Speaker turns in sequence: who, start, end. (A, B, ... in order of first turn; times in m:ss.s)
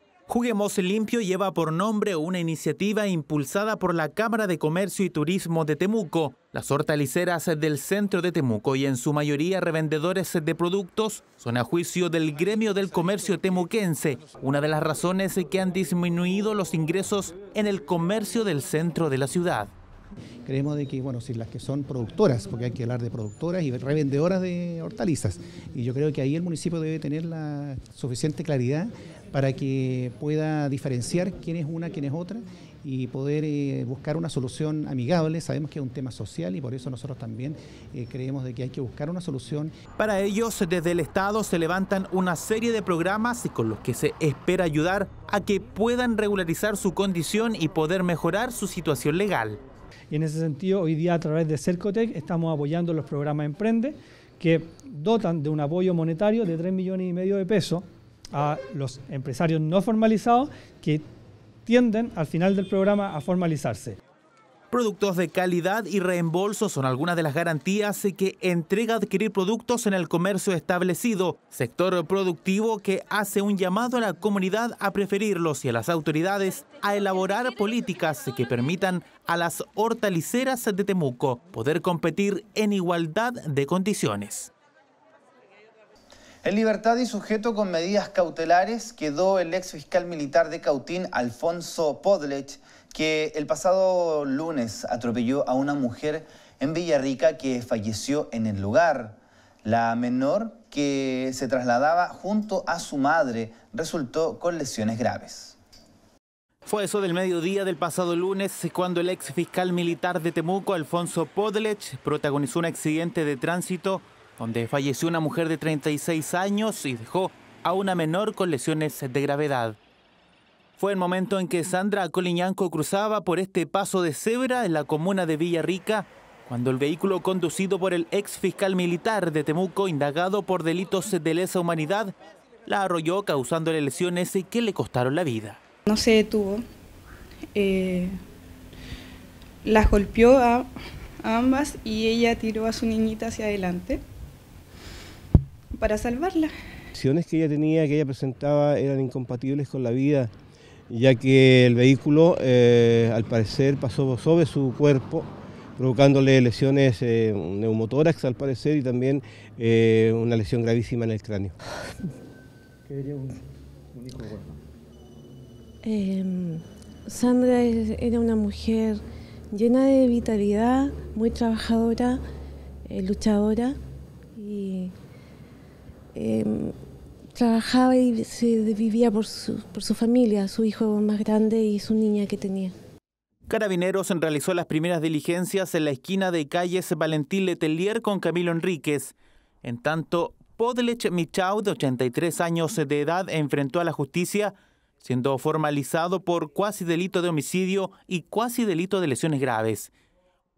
0:00.3-0:19.7 A
0:20.4-0:39.7 B
0:40.0-0:49.6 A
0:50.1-1:01.0 C
1:01.6-1:04.0 C
1:04.7-1:24.5 A
1:26.4-1:45.6 D
1:46.6-1:59.8 A
2:00.8-2:12.1 A
2:12.7-2:15.6 A
2:15.9-2:16.6 E
2:17.5-2:18.1 E
2:19.6-2:20.7 E
2:21.2-2:24.0 E
2:25.8-2:26.5 E
2:27.0-2:30.3 F
2:30.9-2:35.2 F
2:35.8-2:41.5 F
2:45.8-2:49.0 G
2:49.5-2:52.2 G
2:52.9-2:53.7 G
2:54.4-2:54.9 G
2:56.1-2:56.7 G
2:57.3-3:02.7 G
3:03.5-3:19.9 A